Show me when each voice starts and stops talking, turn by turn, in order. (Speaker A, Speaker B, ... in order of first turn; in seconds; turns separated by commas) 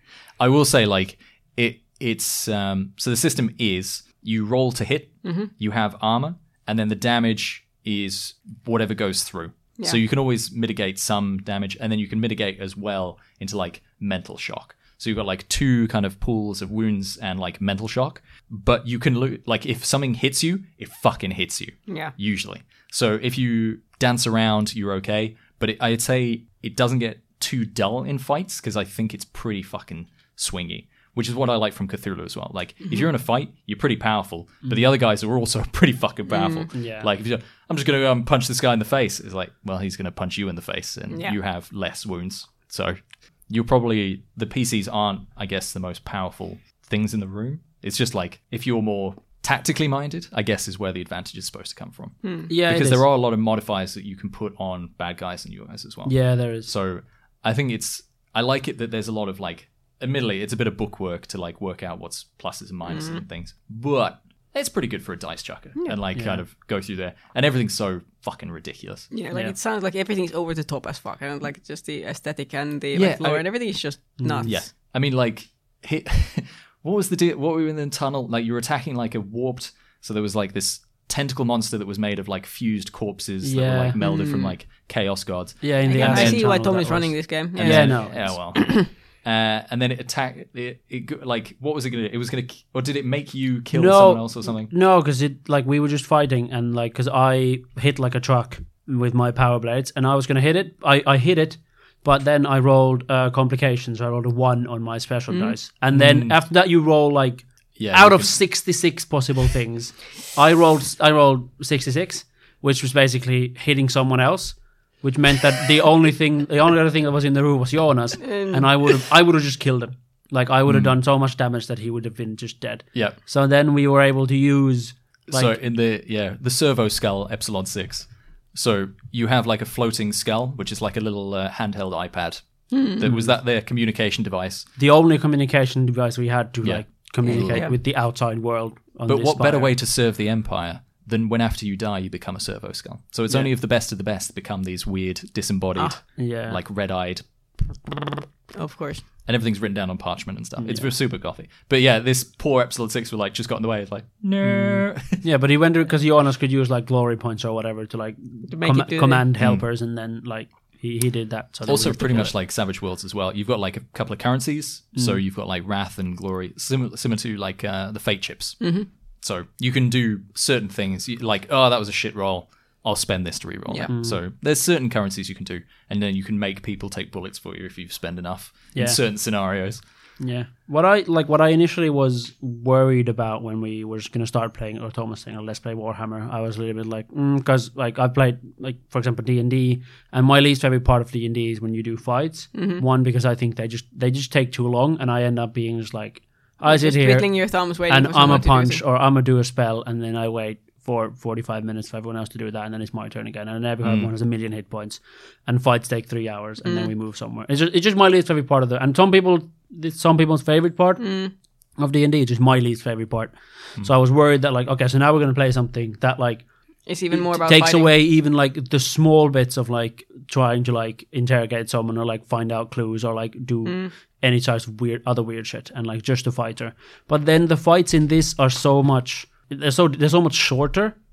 Speaker A: 0.4-69.1, Speaker B: 5.2-5.5, Speaker B: 21.9-22.1, Speaker C: 34.6-34.9, Speaker B: 36.3-36.7, Speaker C: 36.7-37.1, Speaker B: 41.1-41.4, Speaker B: 52.2-52.5, Speaker C: 52.5-53.0, Speaker C: 56.0-56.7, Speaker B: 62.9-63.2, Speaker C: 66.1-66.4, Speaker B: 69.1-74.7, Speaker A: 72.9-73.8, Speaker C: 74.2-74.6, Speaker A: 74.4-86.6, Speaker C: 83.4-84.0, Speaker B: 84.0-84.5, Speaker C: 85.6-88.3, Speaker B: 85.8-88.9, Speaker A: 87.5-94.7, Speaker C: 93.7-125.6, Speaker B: 105.3-105.5, Speaker A: 105.9-106.4, Speaker A: 107.8-108.5, Speaker B: 118.2-119.0, Speaker A: 120.7-120.9, Speaker A: 125.3-134.7, Speaker B: 132.7-133.1, Speaker C: 133.0-133.3, Speaker C: 134.8-139.8, Speaker A: 136.6-137.7, Speaker B: 137.2-137.7, Speaker A: 139.1-147.3, Speaker B: 145.8-146.0, Speaker C: 146.2-146.6, Speaker B: 148.5-149.1, Speaker A: 149.2-155.2, Speaker C: 150.6-150.9, Speaker C: 154.4-162.3, Speaker B: 158.5-159.2, Speaker A: 159.4-159.6, Speaker A: 161.7-179.8, Speaker C: 164.9-165.2, Speaker B: 168.6-168.9, Speaker C: 173.9-174.2, Speaker C: 178.7-179.0, Speaker C: 180.2-211.1, Speaker B: 192.5-192.8, Speaker B: 196.6-198.8, Speaker A: 203.8-204.1, Speaker B: 206.6-206.9, Speaker B: 211.0-211.3, Speaker C: 211.8-231.0, Speaker B: 216.8-217.9, Speaker B: 223.6-223.9